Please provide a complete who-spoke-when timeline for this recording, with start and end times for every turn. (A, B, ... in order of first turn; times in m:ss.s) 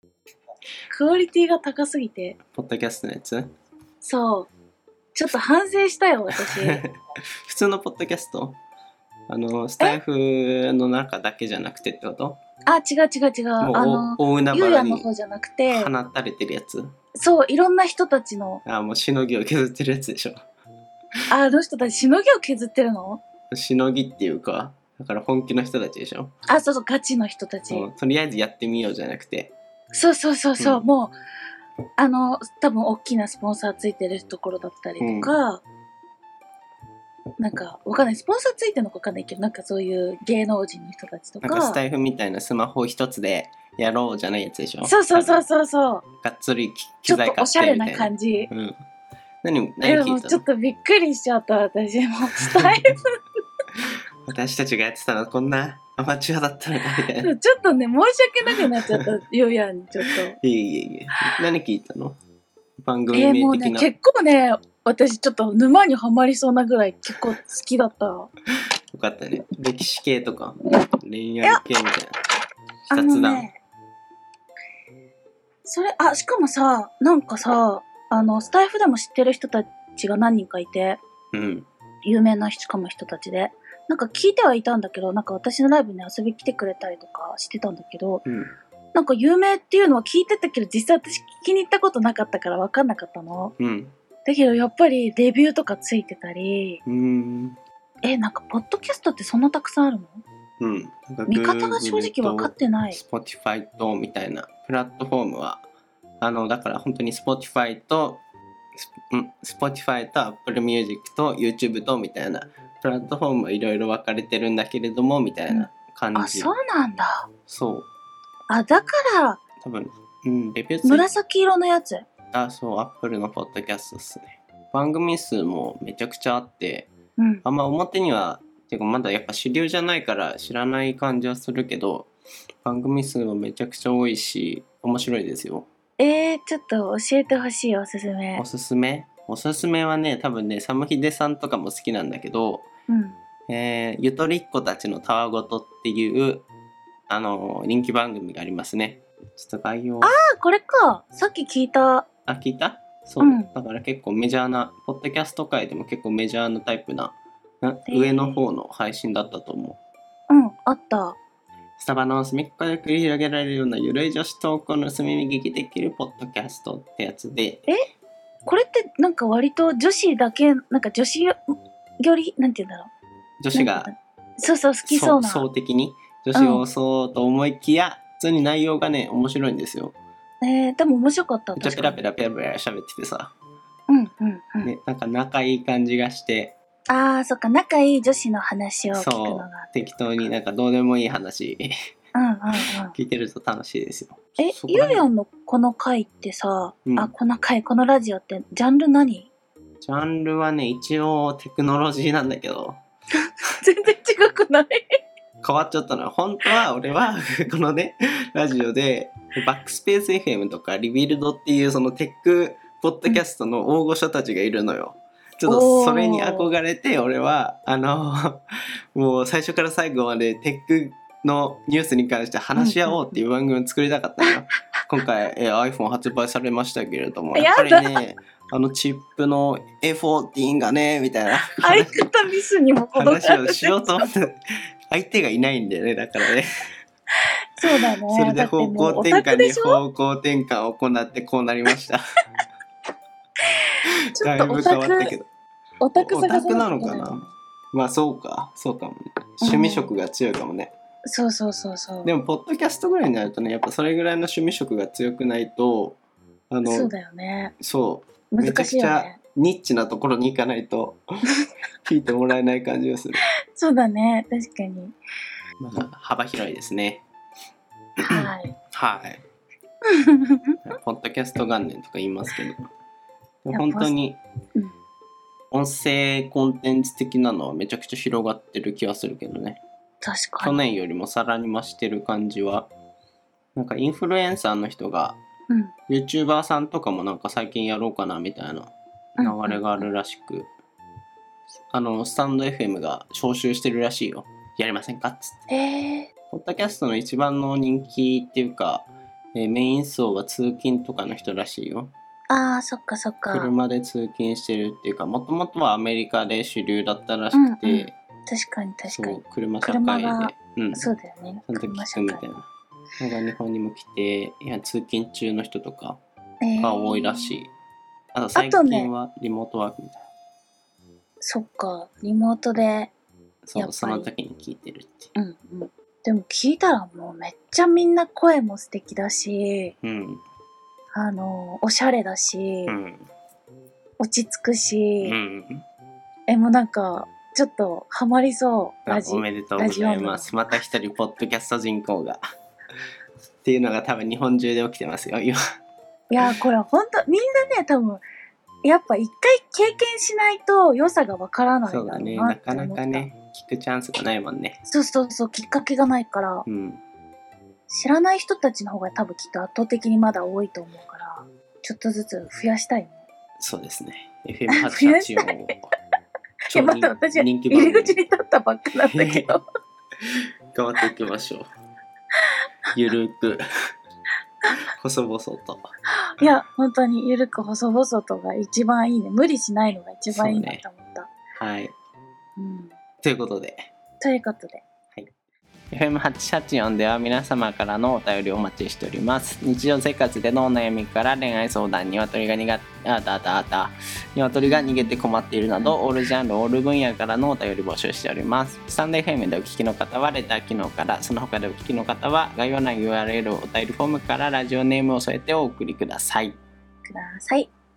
0:00.9-0:02.4 A
0:02.5-0:03.5 B
0:04.0-0:04.5 A
0:05.2-0:06.8 A
0:06.5-0:08.6 B
0:09.3-0:12.4 B
0:12.7-0:15.9 A
0:13.6-0:15.1 B
0:15.7-0:16.9 B
0:17.2-0:18.6 A
0:18.6-0:20.4 B
0:21.3-0:23.2 A
0:23.5-0:26.3 B
0:26.5-0:27.9 A
0:27.7-0:29.5 B
0:29.9-0:31.2 A
0:30.6-0:30.9 B
0:32.0-0:35.6 A
0:35.0-0:35.4 B
0:37.4-0:41.8 A
0:41.4-0:45.4 B
0:44.8-0:46.0 A
0:46.2-0:48.8 B
0:47.1-0:48.5 A
0:49.4-0:50.4 B
0:49.8-0:53.0 A
0:52.4-0:52.8 B
0:54.3-0:57.3 B
0:57.2-1:00.4 A
1:00.0-1:02.2 B
1:02.8-1:03.9 B
1:03.1-1:08.3 A
1:08.9-1:12.2 B
1:12.9-1:13.6 A
1:12.9-1:13.5 B
1:15.6-1:21.0 A
1:21.3-1:21.7 B
1:22.0-1:28.2 A
1:28.3-1:28.5 B
1:28.9-1:33.5 A
1:33.6-1:33.9 B
1:34.2-1:36.8 A
1:36.9-1:37.6 B
1:38.0-1:40.2 A
1:40.6-1:45.6 B
1:41.3-1:43.0 A
1:46.2-1:48.2 B
1:48.8-1:56.5 B
1:55.5-1:57.3 A
1:57.5-1:57.9 B
1:58.5-1:59.4 A
1:59.6-2:01.1 B
2:00.8-2:02.1 A
2:02.3-2:06.9 B
2:07.2-2:07.4 A
2:07.4-2:12.1 B
2:12.6-2:15.7 B
2:16.0-2:18.4 A
2:18.4-2:22.7 B
2:22.9-2:23.2 A
2:23.5-2:26.5 B
2:27.1-2:30.2 B
2:30.0-2:32.1 A
2:32.3-2:39.8 B
2:33.2-2:33.5 A
2:37.9-2:38.4 A
2:40.3-2:41.2 A
2:41.8-2:47.7 B
2:48.5-2:52.9 A
2:53.4-2:53.9 B
2:53.5-2:55.5 A
2:54.8-3:00.0 B
2:56.4-2:56.6 A
3:00.4-3:02.0 A
3:01.6-3:03.3 B
3:03.9-3:04.7 A
3:04.6-3:06.6 B
3:06.9-3:10.0 A
3:08.9-3:11.7 B
3:12.2-3:13.0 A
3:12.9-3:15.0 B
3:14.4-3:19.3 A
3:16.9-3:17.1 B
3:19.8-3:22.8 B
3:23.6-3:24.8 A
3:25.4-3:38.4 B
3:35.5-3:36.5 A
3:39.0-3:52.1 B
3:42.6-3:43.2 A
3:47.3-3:48.0 A
3:51.5-3:54.1 A
3:53.0-3:56.5 B
3:57.6-3:59.8 A
3:58.1-4:02.0 B
4:04.2-4:05.2 A
4:04.2-4:05.3 B
4:05.8-4:07.3 A
4:06.0-4:10.7 B
4:09.4-4:09.9 A
4:11.1-4:12.1 A
4:12.0-4:16.0 B
4:16.5-4:16.9 B
4:16.6-4:17.5 A
4:17.6-4:21.0 B
4:18.3-4:19.2 A
4:21.8-4:23.2 B
4:23.6-4:25.0 A
4:25.6-4:27.1 B
4:28.0-4:29.2 B
4:28.0-4:28.6 A
4:29.9-4:30.6 A
4:30.7-4:32.7 B
4:33.4-4:34.2 B
4:33.5-4:33.9 A
4:35.5-4:39.6 B
4:40.0-4:40.6 A
4:40.4-4:42.7 B
4:43.6-4:45.2 B
4:45.9-4:50.5 B
4:49.2-4:49.9 A
4:51.7-4:55.4 B
4:55.5-4:56.1 A
4:56.3-5:01.9 B
5:02.3-5:03.5 A
5:03.3-5:08.0 B
5:07.3-5:12.3 A
5:08.9-5:10.9 B
5:11.5-5:12.5 B
5:13.0-5:16.0 B
5:16.4-5:17.4 A
5:16.6-5:17.5 B
5:18.1-5:20.0 B
5:18.4-5:18.9 A
5:21.2-5:22.9 A
5:23.4-5:25.1 B
5:23.6-5:24.1 A
5:25.2-5:29.7 A
5:29.8-5:30.2 B
5:30.9-5:32.8 A
5:32.7-5:33.0 B
5:34.0-5:35.2 A
5:35.0-5:35.6 B
5:36.3-5:40.4 A
5:38.9-5:42.2 B
5:43.4-5:45.4 B
5:46.1-5:48.0 A
5:48.6-5:53.1 A
5:51.7-5:54.6 B
5:54.7-5:56.4 A
5:56.5-5:56.8 B
5:57.7-6:03.0 A
6:03.4-6:05.6 B
6:04.5-6:05.6 A
6:06.5-6:08.0 B
6:06.5-6:09.4 A
6:08.9-6:09.4 B
6:10.5-6:11.5 B
6:12.7-6:13.4 B
6:14.8-6:15.7 B
6:16.1-6:21.1 A
6:20.1-6:20.6 B
6:21.4-6:21.7 B
6:22.4-6:22.7 A
6:23.0-6:23.7 B
6:24.0-6:24.6 A
6:25.7-6:46.4 B
6:34.4-6:35.0 A
6:35.6-6:35.9 A
6:46.9-6:47.5 A